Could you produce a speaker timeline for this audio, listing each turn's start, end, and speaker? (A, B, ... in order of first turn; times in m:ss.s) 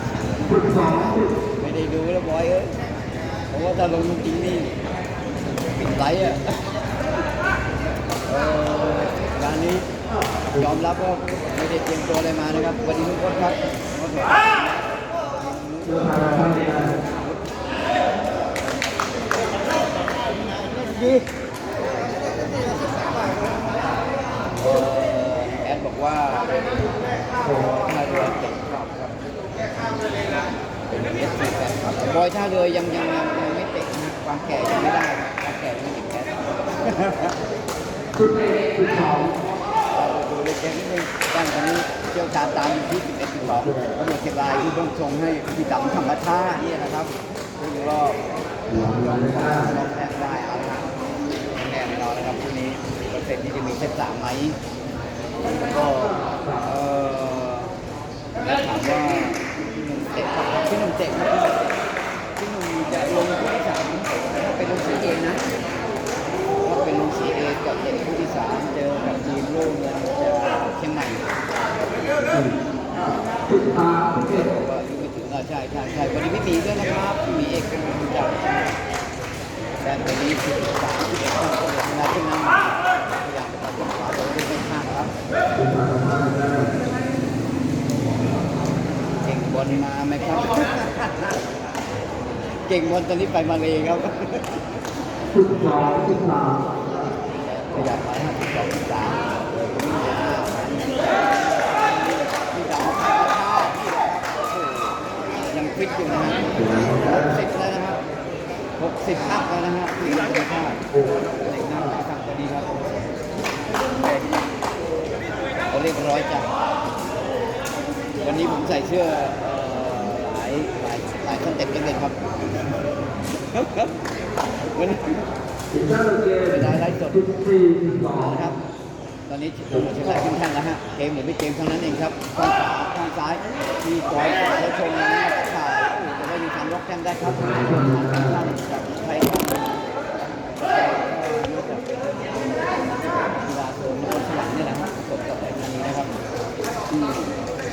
0:00.3-0:02.8 A
0:00.5-0:01.3 B
0:03.5-0:04.7 A
0:05.7-0:06.6 A
0:08.2-0:09.9 A
0:10.5-0:17.4 A
0:15.9-0:16.9 B
0:20.6-0:21.2 A
0:22.8-0:23.2 A
0:24.6-0:26.7 A
0:27.4-0:29.1 A
0:30.9-0:37.3 A
0:38.2-0:39.3 B
0:39.9-0:48.2 A
0:48.7-0:49.7 B
0:49.0-0:50.9 A
0:51.5-0:54.6 A
0:55.4-0:57.7 A
0:58.4-1:01.8 A
1:02.4-1:05.4 A
1:06.6-1:11.3 A
1:13.5-1:14.4 B
1:14.2-1:18.7 A
1:19.8-1:25.1 A
1:25.5-1:26.7 B
1:29.2-1:31.4 A
1:32.6-1:34.6 A
1:35.3-1:36.6 B
1:37.3-1:48.0 A
1:46.6-1:47.2 B
1:48.8-1:53.0 A
1:53.9-1:54.3 A
1:55.7-1:56.5 A
1:58.2-2:02.2 A
2:03.5-2:03.9 A
2:04.6-2:05.2 A
2:05.7-2:08.4 B
2:06.5-2:07.2 A
2:08.0-2:08.6 A
2:09.3-2:26.1 A
2:17.2-2:18.3 B
2:26.9-2:27.4 A